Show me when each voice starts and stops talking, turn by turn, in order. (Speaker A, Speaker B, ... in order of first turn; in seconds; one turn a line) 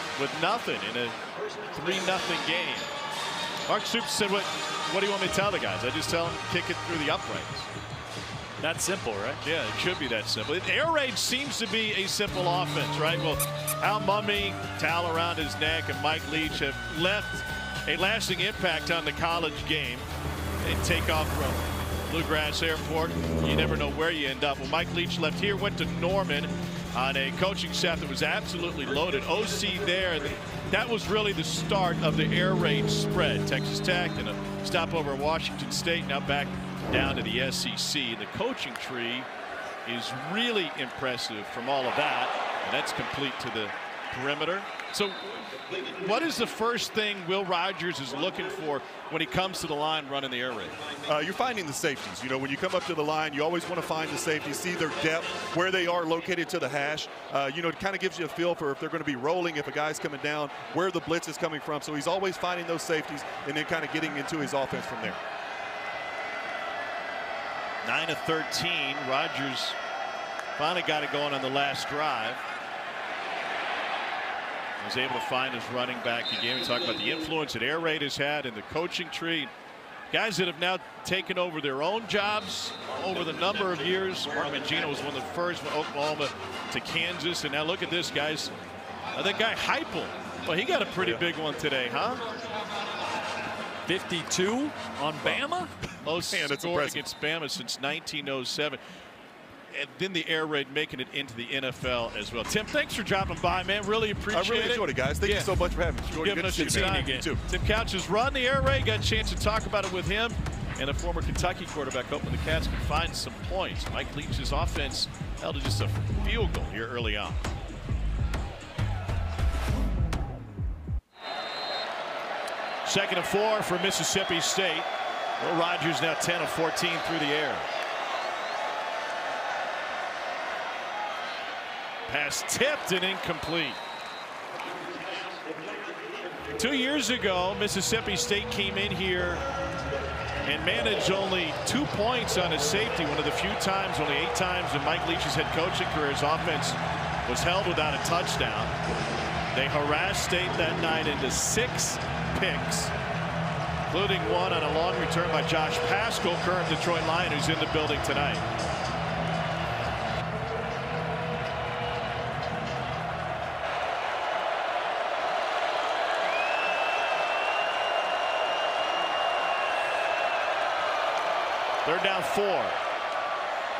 Speaker A: 0.1-1.2
Speaker A: 1.7-2.9
Speaker A: 3.7-7.7
Speaker B: 8.6-9.4
Speaker A: 9.4-20.1
Speaker A: 20.6-39.3
Speaker A: 39.9-50.8
Speaker C: 51.0-65.2
Speaker A: 67.8-69.8
Speaker A: 70.6-72.4
Speaker A: 74.8-79.5
Speaker A: 80.1-88.5
Speaker A: 89.1-92.2
Speaker B: 93.9-95.7
Speaker A: 96.0-98.8
Speaker C: 96.2-97.0
Speaker A: 99.7-105.5
Speaker C: 104.3-107.3
Speaker A: 106.1-117.4
Speaker B: 106.4-107.4
Speaker A: 122.8-127.7
Speaker A: 132.1-133.8
Speaker A: 136.5-139.4
Speaker A: 140.4-148.7
Speaker A: 149.5-152.9
Speaker A: 153.9-158.4
Speaker A: 171.8-172.8